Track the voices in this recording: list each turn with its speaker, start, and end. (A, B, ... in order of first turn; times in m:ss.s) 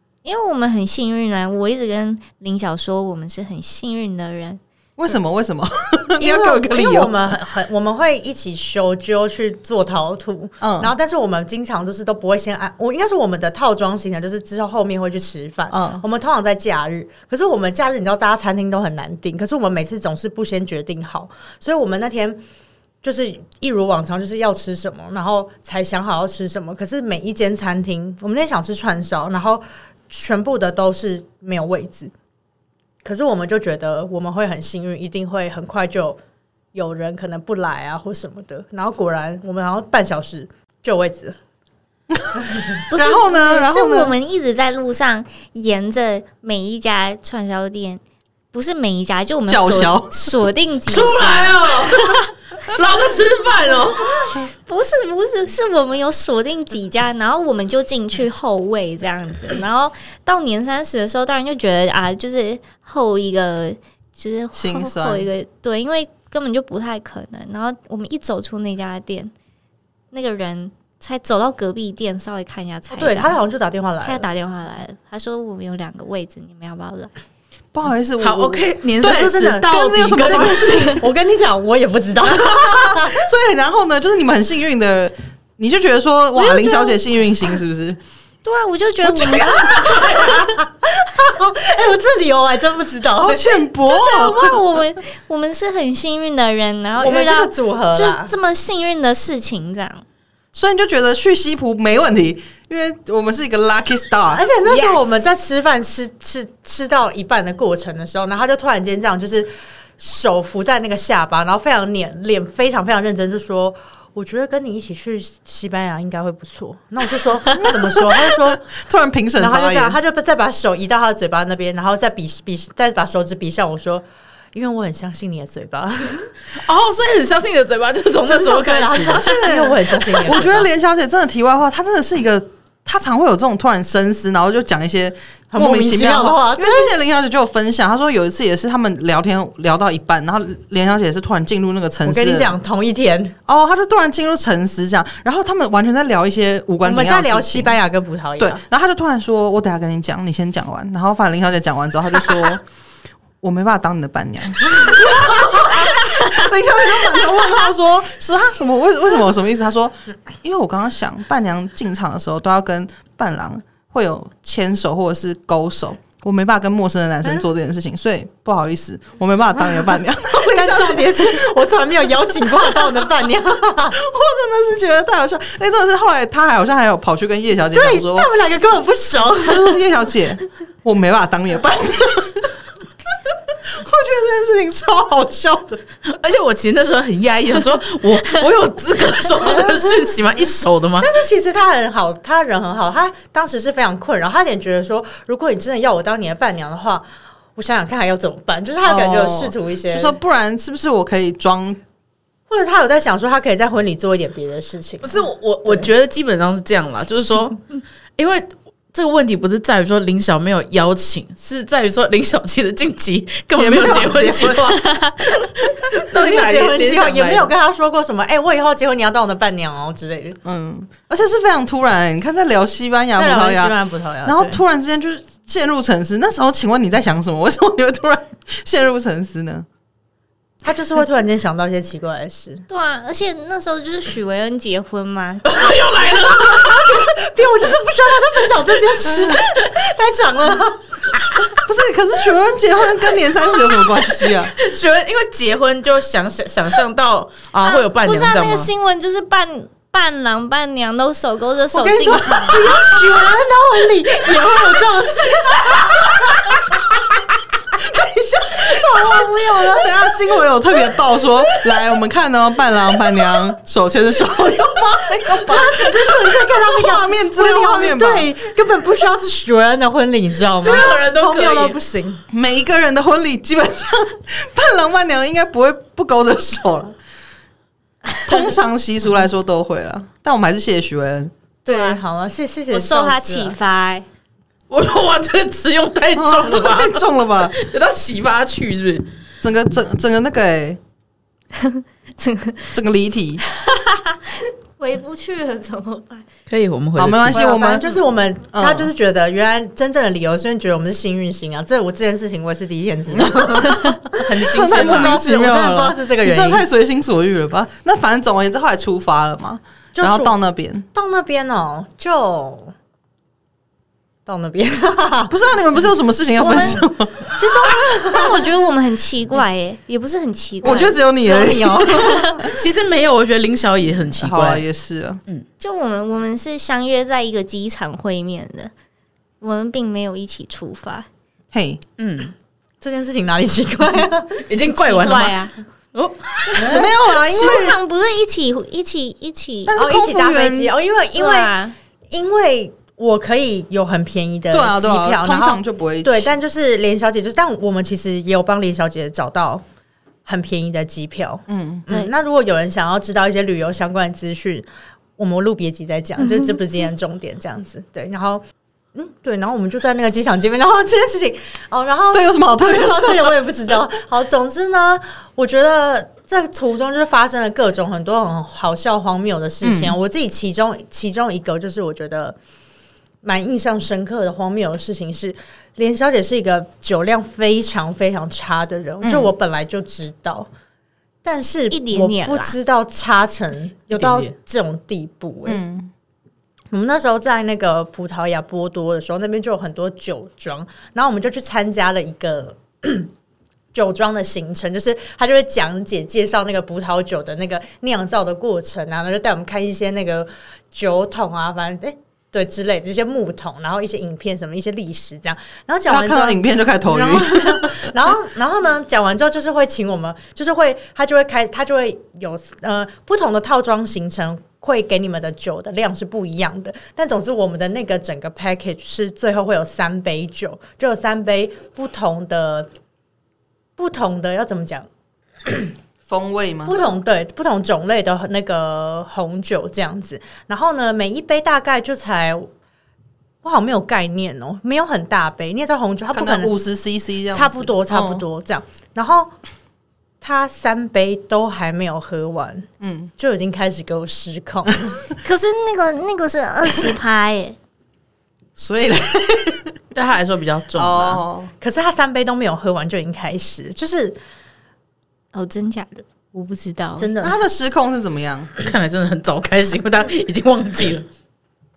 0:00.2-0:04.6 A
0:05.0-0:07.3 B
0:06.2-0:22.4 C
0:10.6-0:10.9 B
0:15.7-0:16.0 B
0:23.0-0:32.1 C
0:33.0-0:36.2 C
0:36.7-0:41.3 C
0:42.1-0:44.1 B
0:42.9-0:52.2 A
0:49.5-0:50.5 B
0:50.9-0:54.3 D
0:54.4-1:09.3 A
1:04.5-1:05.3 B
1:10.1-1:13.4 A
1:12.9-1:14.3 C
1:14.0-1:17.1 A
1:17.7-1:19.5 B
1:18.2-1:21.0 D
1:19.0-1:23.2 C
1:20.1-1:20.8 B
1:22.3-1:28.0 B
1:26.4-1:27.0 A
1:28.4-1:30.4 A
1:29.0-1:30.2 B
1:29.6-1:33.6 C
1:33.2-1:34.6 B
1:33.8-1:40.0 A
1:37.0-1:38.3 C
1:40.5-1:44.4 B
1:44.3-1:58.6 C
1:44.6-1:45.2 A
1:57.5-2:00.0 B
1:59.4-2:06.3 C
2:06.5-2:09.3 D
2:08.2-2:10.7 C
2:09.0-2:22.5 B
2:15.5-2:16.9 C
2:22.0-2:23.4 C
2:23.4-2:27.8 B
2:26.8-2:28.6 C
2:28.4-2:32.6 B
2:33.4-2:51.5 B
2:50.3-2:54.0 C
2:52.5-2:53.0 B
2:53.9-2:58.3 B
2:57.7-2:59.8 C
2:59.4-3:02.5 B
3:03.6-3:05.8 B
3:06.0-3:11.1 D
3:09.5-3:09.7 C
3:11.0-3:17.0 C
3:17.6-3:20.2 C
3:18.8-3:21.8 B
3:22.5-3:25.1 C
3:25.0-3:27.6 D
3:28.2-3:37.5 D
3:33.6-3:34.7 B
3:36.1-3:40.4 C
3:40.4-3:49.6 B
3:43.2-3:44.6 C
3:50.6-3:52.6 C
3:52.7-3:55.5 A
3:55.4-3:57.1 D
3:56.4-4:01.5 C
4:01.6-4:04.5 B
4:04.4-4:08.7 D
4:07.6-4:12.8 A
4:11.7-4:17.0 C
4:17.7-4:19.9 C
4:18.6-4:28.3 B
4:25.3-4:32.2 C
4:30.6-4:31.8 D
4:32.3-4:36.9 B
4:38.2-4:41.3 B
4:41.6-4:43.6 C
4:41.7-4:42.0 A
4:42.7-4:44.0 A
4:44.7-4:49.1 D
4:46.1-4:47.6 B
4:49.4-4:50.8 B
4:51.6-4:52.7 A
4:52.7-4:53.4 B
4:53.5-4:56.2 A
4:56.5-4:57.4 D
4:57.0-4:58.0 B
4:57.3-5:06.6 C
4:58.5-4:58.9 B
5:03.1-5:10.9 B
5:04.2-5:05.2 D
5:10.0-5:10.4 C
5:10.9-5:12.7 C
5:14.2-5:15.3 C
5:15.3-5:17.4 B
5:16.4-5:18.4 C
5:16.5-5:16.8 A
5:18.0-5:21.0 A
5:20.6-5:22.4 B
5:21.2-5:22.4 C
5:21.9-5:22.4 A
5:22.4-5:24.6 D
5:24.2-5:25.2 B
5:25.6-5:28.7 A
5:29.4-5:31.1 A
5:31.5-5:31.8 B
5:32.0-5:32.3 D
5:32.8-5:34.5 C
5:34.5-5:35.3 D
5:34.7-5:35.5 A
5:35.9-5:36.9 D
5:36.6-5:37.8 B
5:36.7-5:39.8 A
5:39.7-5:40.7 B
5:39.8-5:41.5 C
5:41.2-5:41.7 A
5:42.1-5:49.6 C
5:44.5-5:46.3 B
5:50.2-5:58.4 C
5:51.5-5:51.8 B
5:58.9-6:12.4 C
6:02.1-6:03.4 B
6:09.6-6:10.0 B
6:13.2-6:20.5 C
6:19.0-6:19.3 B
6:21.2-6:25.6 C
6:21.7-6:22.6 A
6:24.0-6:24.3 D
6:25.4-6:25.9 B
6:26.7-6:33.1 C
6:33.7-7:02.7 C
6:45.9-6:47.9 B
7:03.8-7:04.9 C
7:05.4-7:05.7 C
7:06.1-7:06.8 B
7:06.6-7:12.5 C
7:13.4-7:16.5 C
7:16.1-7:18.2 B
7:17.3-7:19.3 C
7:20.2-7:25.0 C
7:22.8-7:23.1 B
7:25.2-7:27.6 A
7:28.6-7:29.7 B
7:29.9-7:31.2 D
7:30.7-7:31.5 B
7:31.6-7:34.2 C
7:35.3-7:37.1 A
7:37.0-7:37.4 C
7:37.2-7:38.5 B
7:38.6-7:41.0 D